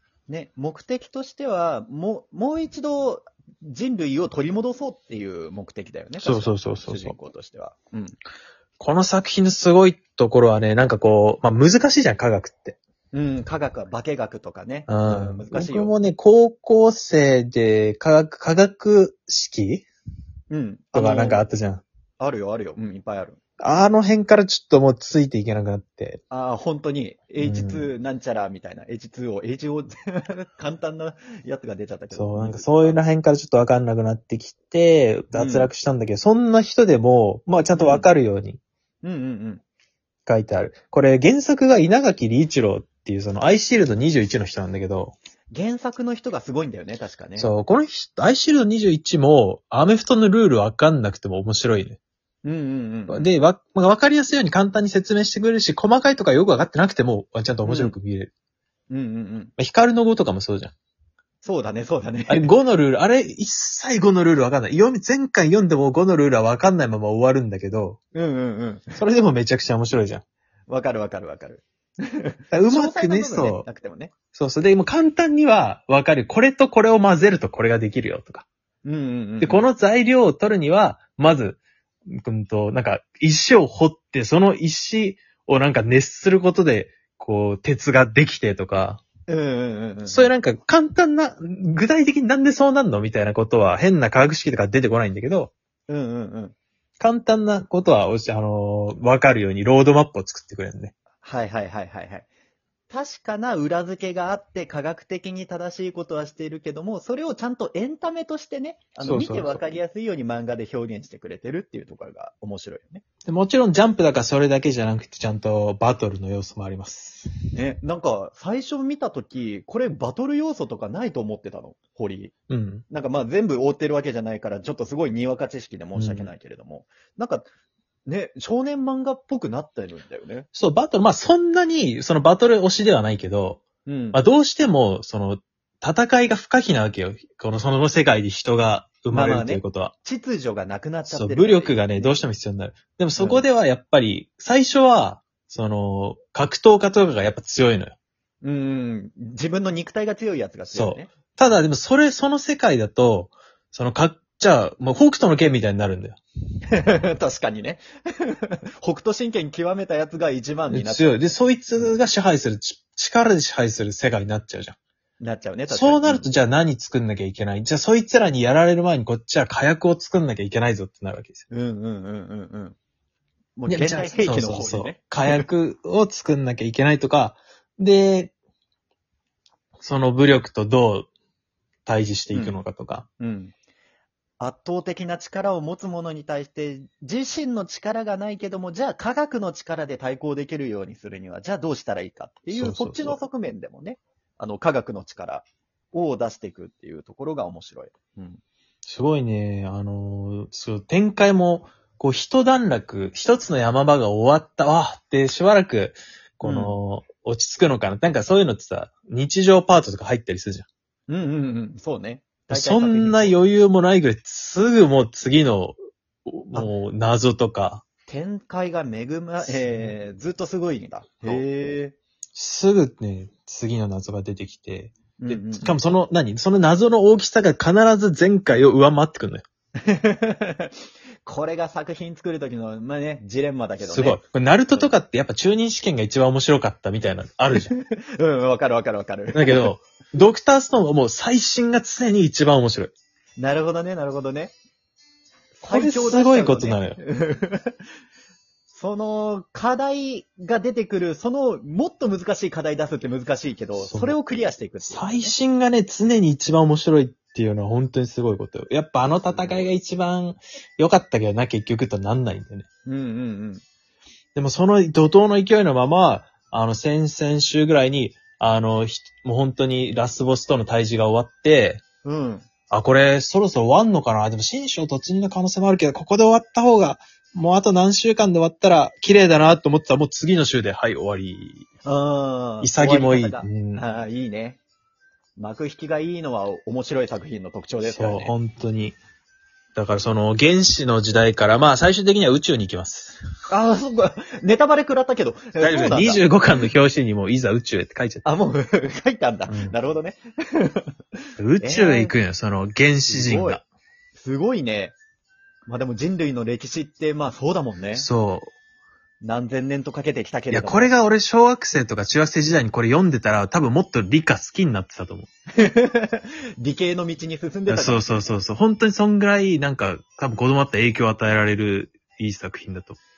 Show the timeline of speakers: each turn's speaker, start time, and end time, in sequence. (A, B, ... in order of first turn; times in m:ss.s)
0:00.3-0:08.2 A
0:06.2-0:07.2 B
0:08.8-0:12.8 B
0:13.1-0:15.9 A
0:14.9-0:19.8 B
0:20.5-0:21.4 A
0:20.9-0:21.8 B
0:22.2-0:23.4 A
0:23.6-0:26.2 B
0:26.3-0:33.0 A
0:27.4-0:27.9 B
0:32.1-0:38.6 B
0:35.3-0:35.7 A
0:37.6-0:38.1 A
0:39.0-0:39.6 A
0:40.2-0:45.2 B
0:45.5-0:47.5 A
0:47.4-0:52.0 B
0:52.4-0:53.3 A
0:53.1-0:58.3 B
0:57.6-0:57.9 A
0:58.9-0:59.5 A
0:59.6-1:00.7 B
1:01.4-1:02.5 A
1:02.3-1:08.0 B
1:08.1-1:09.0 A
1:09.0-1:10.2 B
1:10.7-1:14.1 A
1:12.5-1:13.6 B
1:14.3-1:18.4 B
1:18.8-1:19.7 A
1:19.4-1:29.0 B
1:29.3-1:30.3 A
1:30.0-1:35.5 B
1:35.9-1:36.5 A
1:37.0-1:40.9 B
1:41.2-1:42.3 A
1:42.9-1:53.0 A
1:49.0-1:49.6 B
1:53.2-1:57.3 B
1:57.5-2:02.3 A
2:02.5-2:02.8 B
2:02.9-2:07.5 A
2:05.9-2:06.3 B
2:08.0-2:10.5 A
2:10.5-2:13.6 B
2:13.8-2:14.2 A
2:14.1-2:19.9 B
2:19.1-2:22.2 A
2:21.1-2:27.9 B
2:23.2-2:23.4 A
2:28.4-2:31.1 A
2:30.7-2:36.2 B
2:36.7-2:42.0 A
2:40.7-2:44.8 B
2:45.2-2:46.3 A
2:45.7-2:51.4 B
2:51.5-2:52.8 A
2:53.6-2:55.4 A
2:53.7-2:58.3 B
2:59.8-3:01.1 B
3:01.8-3:03.0 B
3:02.3-3:02.6 A
3:03.2-3:03.5 A
3:04.4-3:18.4 A
3:12.5-3:13.2 B
3:18.8-3:30.7 B
3:26.4-3:26.8 A
3:31.1-3:33.4 A
3:32.5-3:37.8 B
3:38.1-3:41.9 A
3:39.4-3:39.9 B
3:42.3-3:49.4 B
3:45.2-3:45.8 A
3:49.8-3:54.2 A
3:53.8-3:57.7 B
3:57.5-3:59.7 A
3:59.3-4:02.9 B
4:03.4-4:04.5 A
4:05.6-4:07.8 A
4:05.6-4:07.0 B
4:08.7-4:15.3 A
4:13.8-4:14.1 B
4:14.8-4:22.6 B
4:19.2-4:19.7 A
4:22.8-4:23.6 A
4:24.3-4:31.8 B
4:32.0-4:32.4 A
4:32.7-4:41.7 B
4:41.8-4:44.6 A
4:42.6-4:43.8 B
4:45.4-4:48.3 A
4:47.8-4:49.0 B
4:49.8-4:53.2 B
4:53.5-4:56.2 A
4:55.6-4:58.2 B
4:58.2-5:00.9 A
4:59.5-4:59.7 B
5:01.4-5:03.6 B
5:01.6-5:02.1 A
5:03.1-5:03.6 A
5:04.1-5:04.9 A
5:05.6-5:08.0 A
5:07.9-5:08.5 B
5:09.2-5:10.9 A
5:10.5-5:15.3 B
5:15.6-5:18.3 A
5:17.7-5:23.0 B